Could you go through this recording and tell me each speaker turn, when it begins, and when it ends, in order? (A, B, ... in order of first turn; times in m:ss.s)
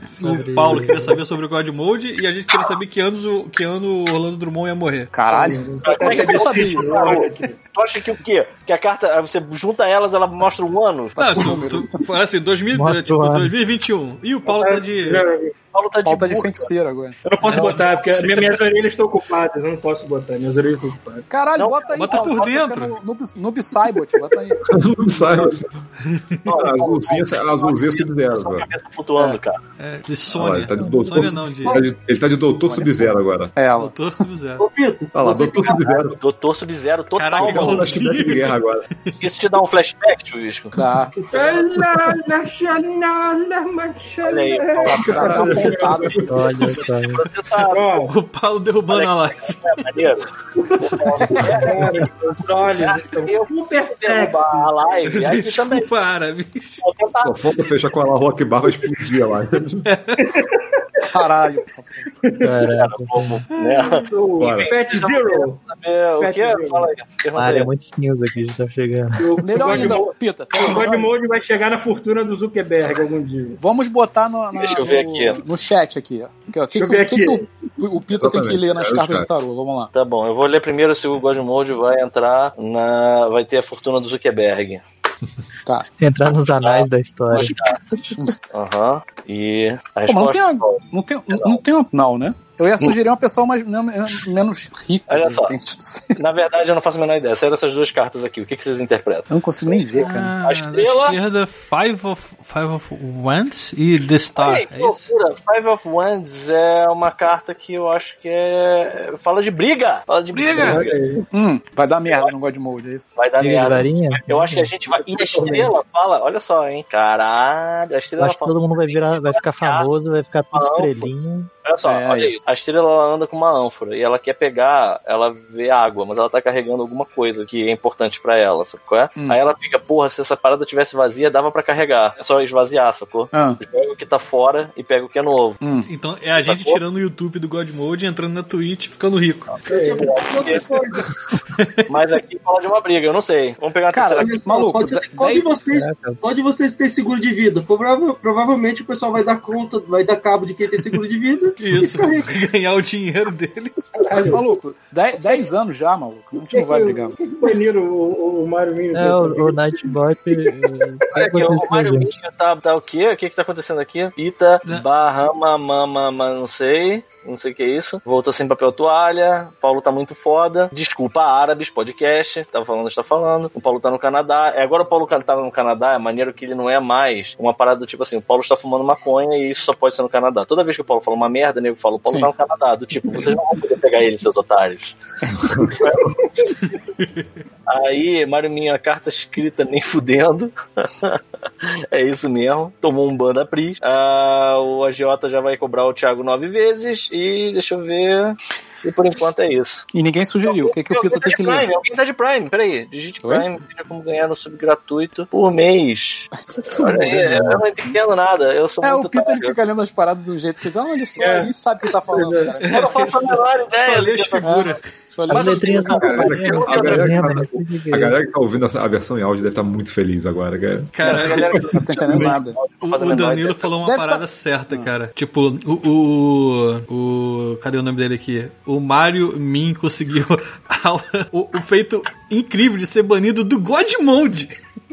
0:00.2-0:05.1 A
0:00.2-0:01.2 B
0:05.1-0:07.2 C
0:05.3-0:07.6 D
0:05.8-0:11.2 E
0:11.2-0:12.0 C
0:11.2-0:15.2 A
0:12.7-0:13.5 B
0:14.5-0:15.5 D
0:15.7-0:16.7 E
0:16.0-0:17.2 C
0:17.2-0:21.2 D
0:17.4-0:18.6 A
0:21.3-0:24.6 C
0:21.6-0:22.3 E
0:22.0-0:23.0 A
0:24.6-0:25.7 F
0:26.0-0:26.4 A
0:26.5-0:29.6 E
0:26.5-0:28.7 F
0:29.8-0:31.8 A
0:30.3-0:33.5 F
0:32.7-0:34.2 C
0:33.8-0:34.6 A
0:34.6-0:36.1 G
0:35.1-0:36.2 F
0:36.2-0:37.9 E
0:37.2-0:38.6 A
0:37.4-0:38.9 F
0:39.2-0:40.7 E
0:40.7-0:41.1 C
0:41.2-0:41.5 G
0:41.3-0:46.8 D
0:44.2-0:45.8 E
0:45.0-0:46.3 C
0:45.0-0:46.5 F
0:46.2-0:47.2 B
0:46.8-0:47.9 E
0:47.7-0:48.1 D
0:48.1-0:49.6 A
0:48.9-0:51.9 E
0:51.2-0:51.5 C
0:51.4-0:52.1 B
0:51.6-0:54.7 D
0:52.8-0:55.9 E
0:55.1-0:56.8 A
0:56.8-0:57.3 E
0:57.1-0:59.9 F
0:59.9-1:00.3 A
1:00.2-1:01.2 D
1:01.1-1:02.1 C
1:02.2-1:02.6 D
1:02.4-1:03.4 B
1:02.7-1:07.7 E
1:03.5-1:04.0 A
1:03.7-1:05.6 D
1:04.4-1:04.7 F
1:06.2-1:06.9 D
1:07.4-1:09.3 B
1:09.2-1:13.6 D
1:09.4-1:11.1 C
1:13.6-1:19.9 C
1:14.6-1:15.4 E
1:16.7-1:17.5 D
1:18.1-1:19.3 F
1:19.9-1:24.8 E
1:26.0-1:27.6 B
1:26.6-1:31.6 E
1:30.1-1:36.2 C
1:35.1-1:35.5 E
1:36.1-1:41.2 E
1:39.3-1:40.4 C
1:40.0-1:45.1 A
1:44.4-1:51.0 E
1:50.3-1:50.8 A
1:50.6-1:51.3 D
1:51.3-1:53.1 C
1:53.2-1:59.9 E
1:53.4-1:54.7 B
1:54.9-1:55.7 D
1:58.2-2:01.5 B
2:00.5-2:01.1 E
2:01.6-2:15.6 E
2:01.8-2:02.4 C
2:13.3-2:13.6 C
2:15.6-2:15.9 C
2:15.9-2:19.5 A
2:16.4-2:16.8 E
2:19.7-2:21.1 G
2:19.7-2:20.2 D
2:20.0-2:20.7 E
2:21.5-2:21.8 A
2:21.9-2:24.4 E
2:23.9-2:25.5 C
2:24.2-2:32.3 G
2:25.7-2:26.2 B
2:31.6-2:33.8 A
2:34.0-2:34.4 D
2:34.2-2:37.2 C
2:36.4-2:41.6 D
2:38.9-2:42.1 B
2:41.1-3:05.0 E
3:05.4-3:05.7 F
3:05.6-3:06.0 E
3:07.7-3:19.9 E
3:19.9-3:21.7 C
3:20.4-3:29.6 E
3:26.6-3:27.6 C
3:28.8-3:33.0 C
3:31.2-3:31.5 D
3:32.1-3:32.6 D
3:32.6-3:34.9 A
3:32.7-3:34.8 E
3:34.4-3:35.9 C
3:35.3-3:37.3 E
3:35.3-3:38.2 B
3:35.9-3:42.4 F
3:40.9-3:41.7 A
3:41.0-3:43.7 E
3:41.7-3:42.6 C
3:42.8-3:54.6 A
3:43.8-3:44.9 C